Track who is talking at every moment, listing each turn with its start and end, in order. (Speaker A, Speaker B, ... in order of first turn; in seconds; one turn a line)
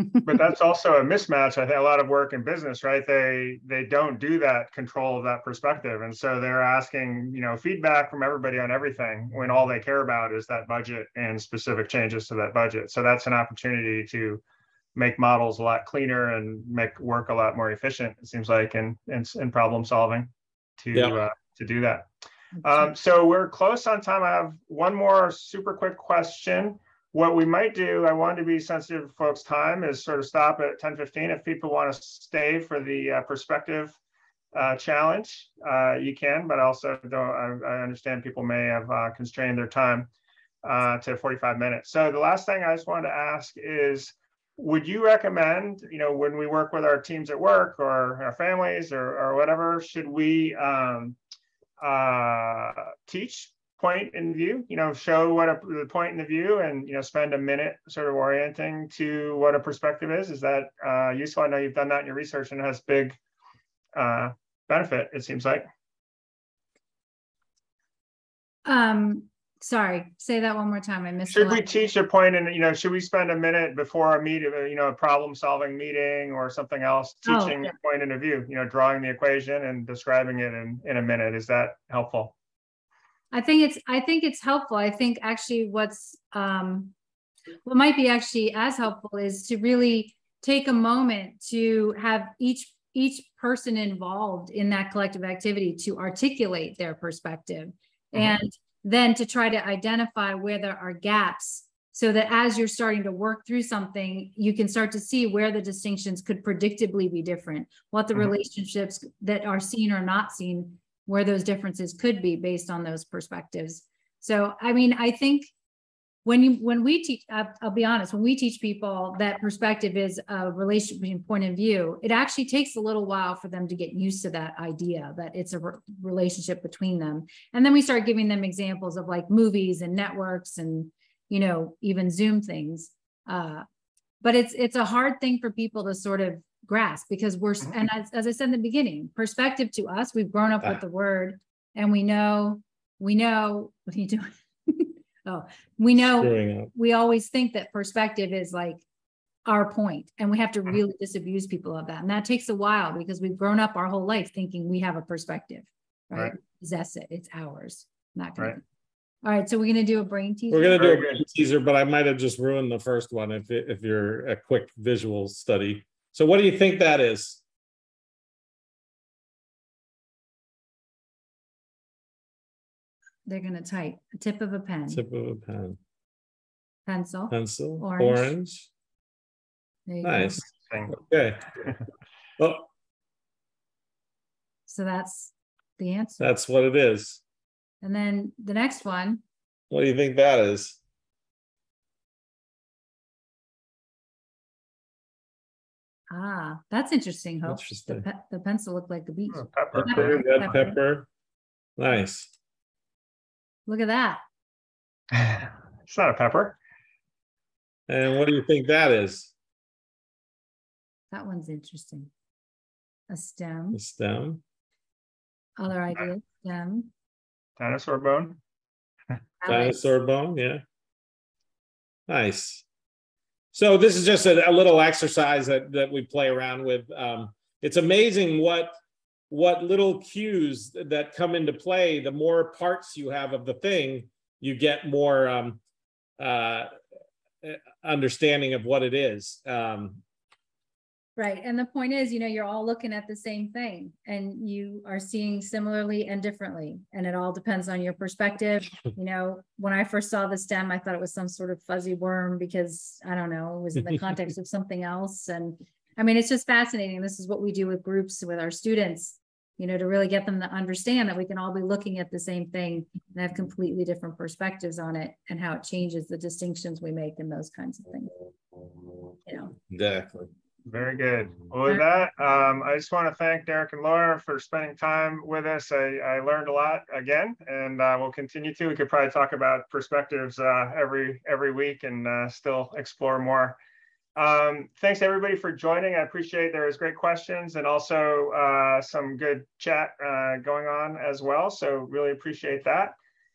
Speaker A: 0.2-14.4
Speaker A: 14.9-22.1
Speaker A: 22.6-34.0
Speaker A: 34.5-40.1
Speaker A: 40.6-51.2
Speaker A: 51.8-63.2
Speaker A: 63.9-65.6
Speaker B: 68.7-71.6
Speaker A: 71.3-82.3
Speaker B: 77.2-77.7
Speaker B: 83.3-86.9
Speaker B: 87.6-115.5
Speaker B: 116.2-133.6
Speaker B: 134.2-148.8
Speaker C: 146.2-146.7
Speaker B: 149.4-158.6
Speaker B: 159.2-160.9
Speaker C: 160.5-167.4
Speaker A: 160.8-161.2
Speaker B: 173.2-175.0
Speaker C: 174.9-175.8
Speaker B: 176.8-178.3
Speaker C: 177.3-178.7
Speaker B: 179.9-180.4
Speaker C: 180.0-181.4
Speaker A: 180.7-180.9
Speaker C: 182.4-182.7
Speaker B: 184.7-186.3
Speaker C: 186.2-187.2
Speaker B: 187.8-189.2
Speaker C: 189.7-190.8
Speaker B: 196.1-200.8
Speaker C: 197.4-198.0
Speaker A: 199.3-200.2
Speaker C: 199.7-201.1
Speaker C: 201.8-202.3
Speaker B: 203.7-204.2
Speaker A: 205.1-206.6
Speaker C: 207.9-209.3
Speaker B: 211.1-212.1
Speaker B: 213.1-213.8
Speaker C: 213.7-214.4
Speaker B: 215.6-216.9
Speaker A: 217.6-218.4
Speaker B: 219.4-219.8
Speaker C: 219.4-220.6
Speaker C: 222.1-222.6
Speaker C: 223.5-228.7
Speaker C: 229.3-235.6
Speaker C: 236.2-236.7
Speaker C: 237.4-240.0
Speaker B: 241.2-268.1
Speaker B: 269.2-269.5
Speaker C: 269.7-270.3
Speaker A: 270.6-283.6
Speaker A: 284.1-292.9